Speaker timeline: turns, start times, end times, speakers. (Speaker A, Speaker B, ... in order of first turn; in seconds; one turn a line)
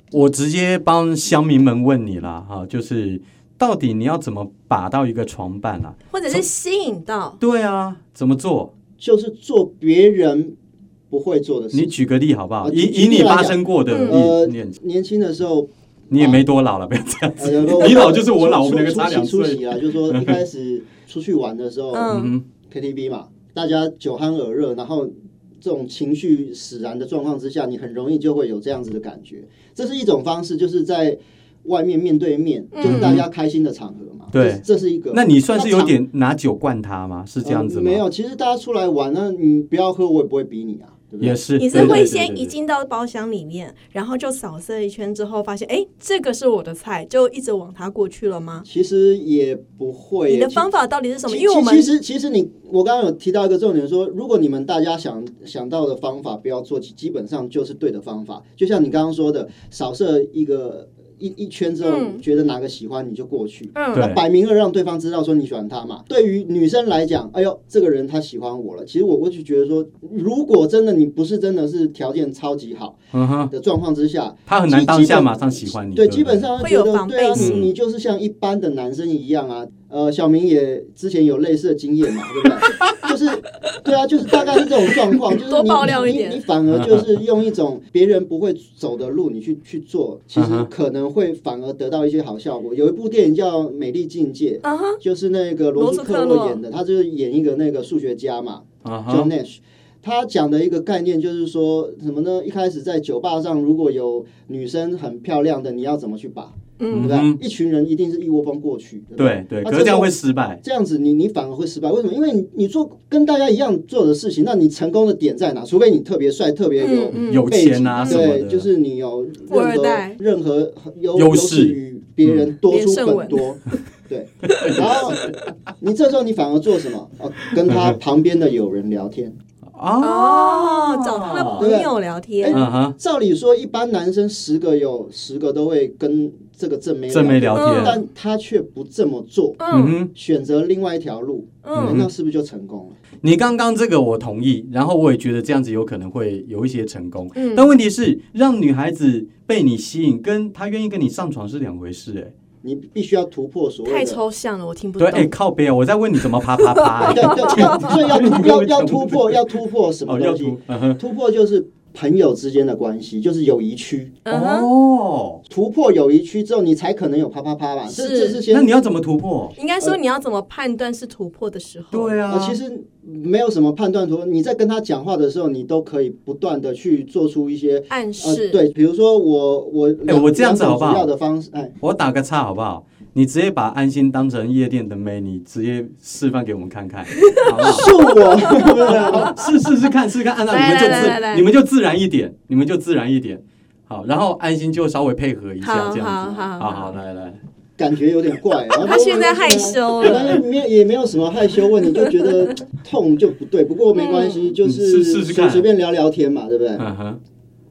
Speaker A: 0.1-6.5
Speaker B: 6.1-7.4
Speaker A: 7.4-8.7
Speaker C: 9.0-10.6
Speaker C: 11.1-12.0
Speaker A: 11.7-14.8
Speaker C: 12.6-16.4
Speaker B: 13.9-14.2
Speaker A: 16.1-20.4
Speaker C: 17.4-35.9
Speaker B: 21.9-22.3
Speaker A: 22.1-22.4
Speaker B: 32.7-33.2
Speaker A: 32.8-33.2
Speaker A: 34.3-38.0
Speaker C: 37.4-42.1
Speaker A: 41.2-42.5
Speaker B: 41.6-48.7
Speaker C: 48.6-50.7
Speaker B: 50.3-51.9
Speaker C: 51.3-73.0
Speaker B: 61.8-62.2
Speaker B: 63.8-64.1
Speaker A: 63.9-64.2
Speaker A: 73.1-73.5
Speaker C: 73.5-129.3
Speaker A: 74.5-76.5
Speaker B: 76.6-77.5
Speaker A: 77.4-77.7
Speaker B: 85.3-86.4
Speaker A: 86.7-87.1
Speaker A: 90.3-90.7
Speaker B: 94.6-95.0
Speaker B: 95.8-96.6
Speaker A: 98.8-99.3
Speaker B: 106.8-107.2
Speaker A: 106.9-107.4
Speaker A: 109.2-110.6
Speaker B: 116.8-118.2
Speaker A: 117.2-118.7
Speaker B: 119.5-120.2
Speaker A: 121.2-122.5
Speaker B: 122.7-123.5
Speaker A: 124.5-125.4
Speaker A: 127.5-128.0
Speaker A: 129.8-131.7
Speaker B: 130.0-132.6
Speaker C: 131.6-143.0
Speaker A: 132.5-133.0
Speaker A: 137.1-138.0
Speaker B: 137.5-138.0
Speaker B: 139.6-140.0
Speaker A: 139.7-140.1
Speaker B: 141.6-142.0
Speaker A: 141.8-142.1
Speaker A: 143.2-152.3
Speaker B: 147.4-147.7
Speaker C: 152.6-154.2
Speaker B: 153.9-155.3
Speaker A: 155.0-159.6
Speaker B: 156.6-158.0
Speaker C: 157.0-164.2
Speaker A: 160.1-161.0
Speaker B: 164.2-164.7
Speaker A: 164.3-165.4
Speaker C: 165.5-168.7
Speaker B: 167.9-168.4
Speaker A: 168.5-169.6
Speaker B: 169.6-172.2
Speaker A: 171.9-172.6
Speaker C: 172.3-181.8
Speaker B: 177.9-178.6
Speaker A: 180.1-181.1
Speaker A: 181.8-187.9
Speaker B: 187.2-189.4
Speaker C: 187.6-189.4
Speaker A: 188.5-197.4
Speaker B: 190.5-191.5
Speaker B: 195.6-197.0
Speaker C: 197.8-206.8
Speaker B: 198.7-200.4
Speaker B: 201.9-202.5
Speaker B: 203.9-204.5
Speaker A: 204.6-205.7
Speaker A: 206.8-207.2